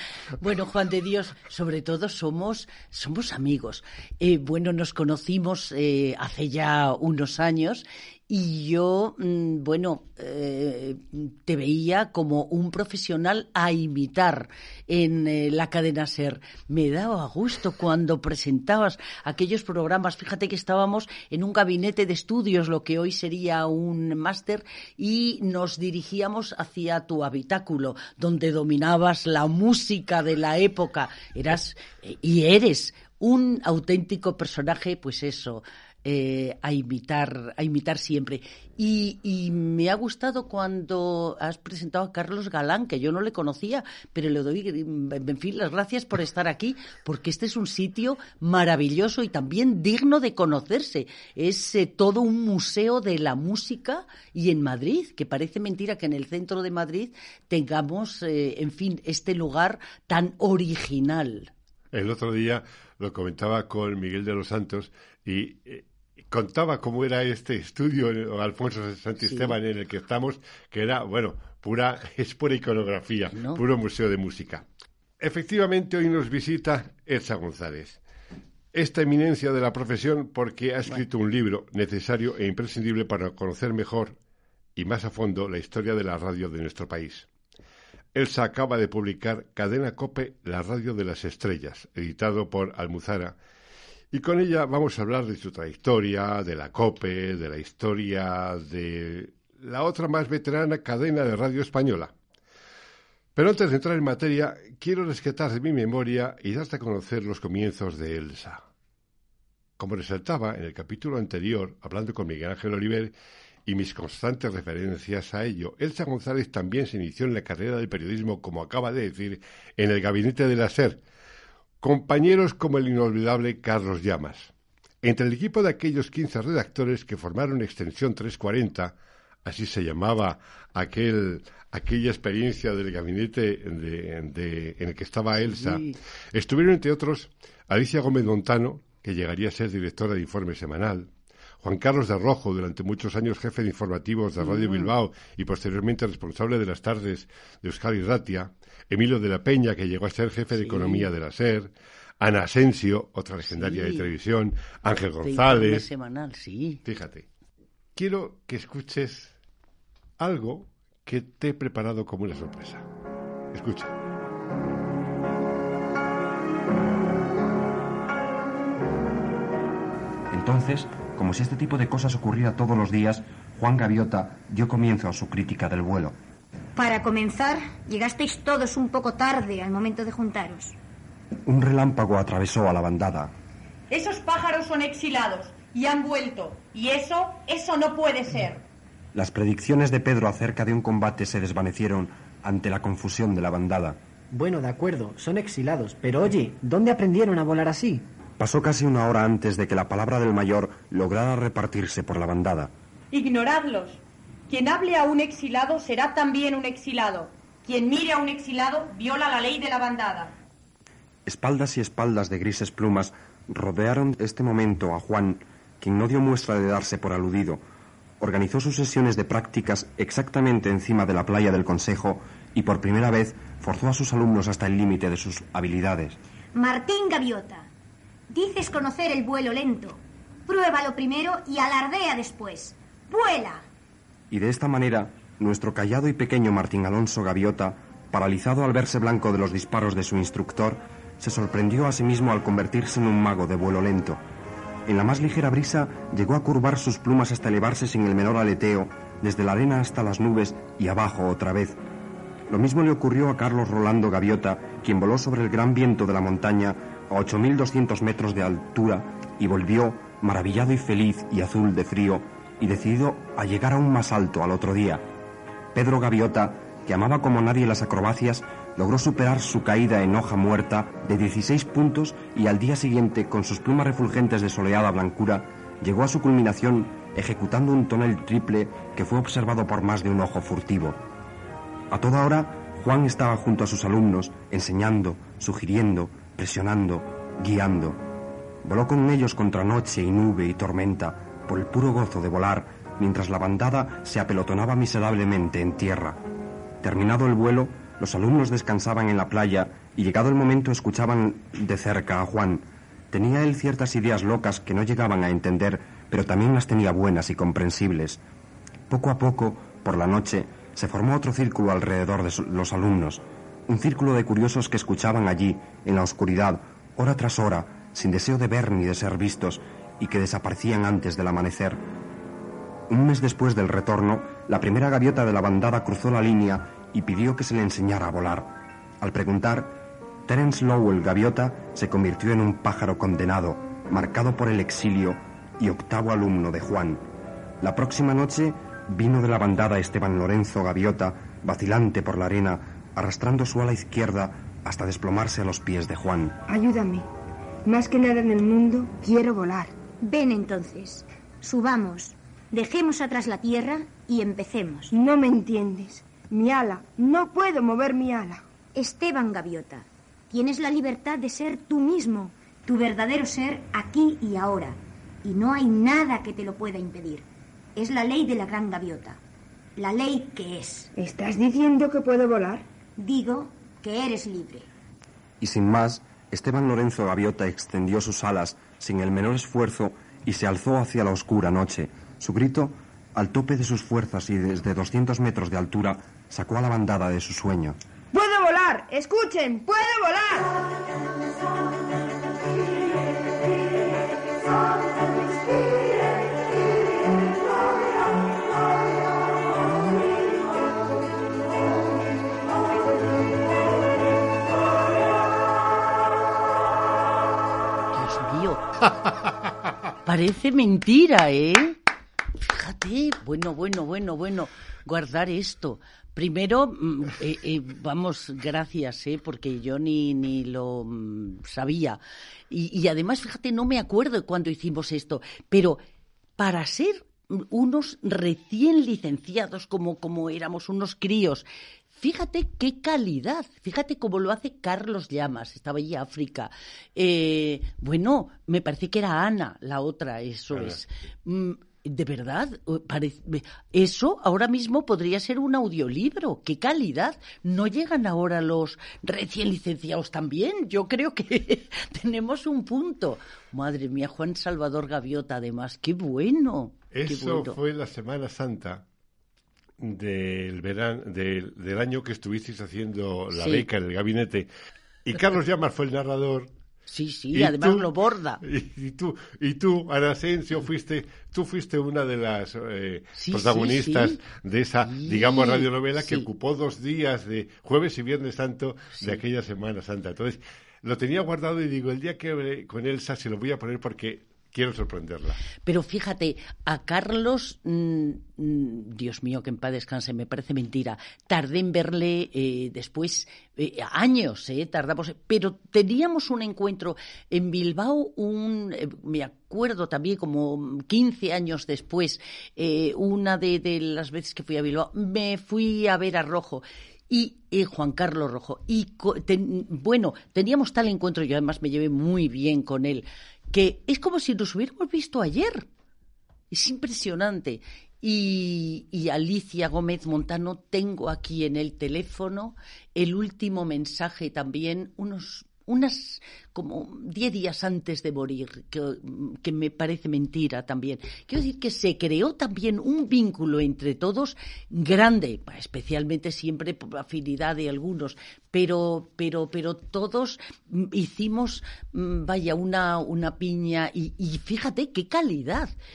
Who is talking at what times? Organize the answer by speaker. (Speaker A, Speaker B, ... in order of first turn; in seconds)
Speaker A: 0.4-61.5, 69.2-69.5, 73.3-73.6, 135.4-135.9, 144.4-144.9, 150.6-151.1, 153.4-154.1, 155.2-156.8, 407.9-408.9, 410.0-411.8, 412.4-425.8, 426.4-457.6, 463.3-463.6, 466.9-468.4, 473.1-474.2, 474.8-476.3, 485.6-515.7, 516.5-545.7
Speaker B: 61.9-74.6, 75.2-78.0, 78.7-84.2, 84.8-87.3, 88.1-93.3, 94.1-102.1, 103.3-108.6, 109.8-113.1, 113.7-121.0, 121.8-124.5, 125.0-141.1, 141.6-155.8, 156.8-157.2, 157.9-159.3, 160.2-162.8, 163.5-163.9, 440.5-440.8, 456.9-458.8, 459.8-464.5, 465.0-466.5, 467.3-485.4
Speaker C: 170.3-176.2, 181.4-183.3, 189.1-194.0, 198.4-202.7, 211.2-217.6, 218.2-226.2, 234.3-244.2, 244.9-251.8, 252.5-265.0, 265.7-281.0, 281.9-288.0, 288.6-296.2, 296.8-308.2, 308.9-321.8, 322.9-337.1, 337.6-346.4, 375.4-387.8
Speaker D: 176.7-180.7, 226.5-227.7, 228.3-233.7, 350.0-354.9, 358.7-369.2, 369.8-370.9, 373.0-374.7
Speaker E: 183.9-188.6, 203.1-210.3
Speaker F: 194.3-198.1
Speaker G: 346.5-347.1, 347.6-349.8, 354.9-358.4, 370.9-372.7, 388.1-390.6